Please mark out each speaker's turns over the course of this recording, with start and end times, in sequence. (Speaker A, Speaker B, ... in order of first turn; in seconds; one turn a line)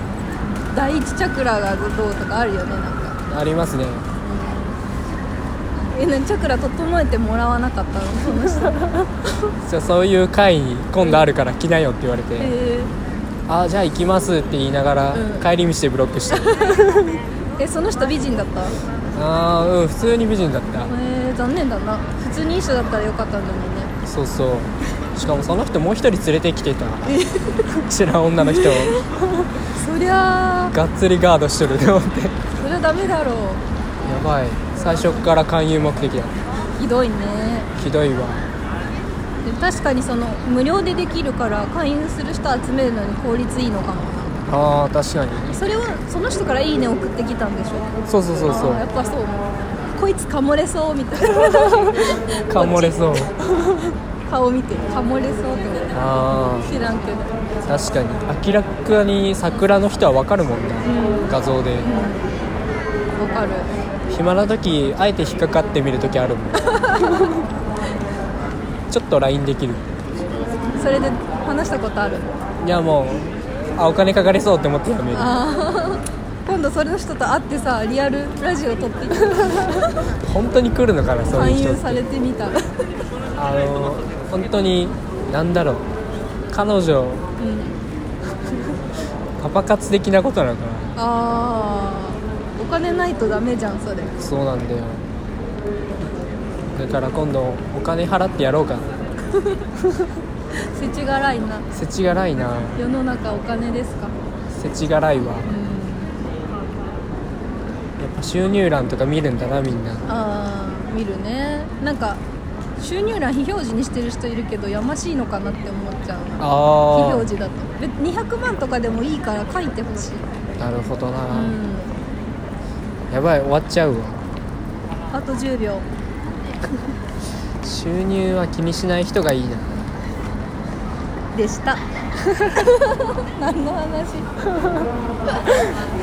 Speaker A: 0.7-3.2
Speaker B: 3.3-4.1
Speaker A: 4.2-4.8
Speaker A: 5.9-8.9
Speaker B: 9.6-12.5
Speaker A: 12.4-12.9
Speaker B: 13.5-17.1
Speaker A: 15.1-15.5
Speaker A: 16.4-17.0
Speaker A: 17.6-18.8
Speaker B: 19.1-20.9
Speaker A: 20.9-23.9
Speaker B: 24.0-29.0
Speaker A: 27.1-27.7
Speaker A: 28.4-29.1
Speaker A: 29.7-30.7
Speaker B: 30.7-32.4
Speaker A: 32.6-33.6
Speaker B: 34.0-36.4
Speaker A: 36.8-37.7
Speaker B: 37.7-38.5
Speaker A: 39.4-44.4
Speaker B: 44.5-45.6
Speaker A: 45.5-47.9
Speaker B: 48.0-48.9
Speaker A: 48.4-53.1
Speaker B: 52.4-53.4
Speaker A: 54.2-57.4
Speaker B: 55.9-56.7
Speaker B: 57.6-61.9
Speaker A: 60.8-62.3
Speaker A: 63.1-63.7
Speaker B: 64.1-66.9
Speaker A: 66.7-67.3
Speaker B: 68.9-69.9
Speaker A: 70.7-72.3
Speaker B: 72.6-75.4
Speaker A: 75.1-80.0
Speaker B: 80.2-82.0
Speaker A: 81.3-82.9
Speaker B: 83.3-85.8
Speaker B: 86.5-87.2
Speaker A: 87.4-87.8
Speaker B: 89.4-91.0
Speaker A: 91.0-94.2
Speaker B: 94.2-95.0
Speaker B: 96.7-98.9
Speaker A: 100.6-101.7
Speaker B: 101.7-102.8
Speaker A: 102.7-104.1
Speaker B: 104.5-105.5
Speaker A: 105.4-106.1
Speaker B: 108.0-110.1
Speaker A: 110.1-112.2
Speaker A: 112.8-120.3
Speaker B: 116.4-117.3
Speaker B: 120.6-121.6
Speaker A: 121.3-122.0
Speaker B: 123.1-124.2
Speaker A: 125.1-125.8
Speaker B: 127.6-129.9
Speaker A: 131.3-134.4
Speaker A: 135.3-135.7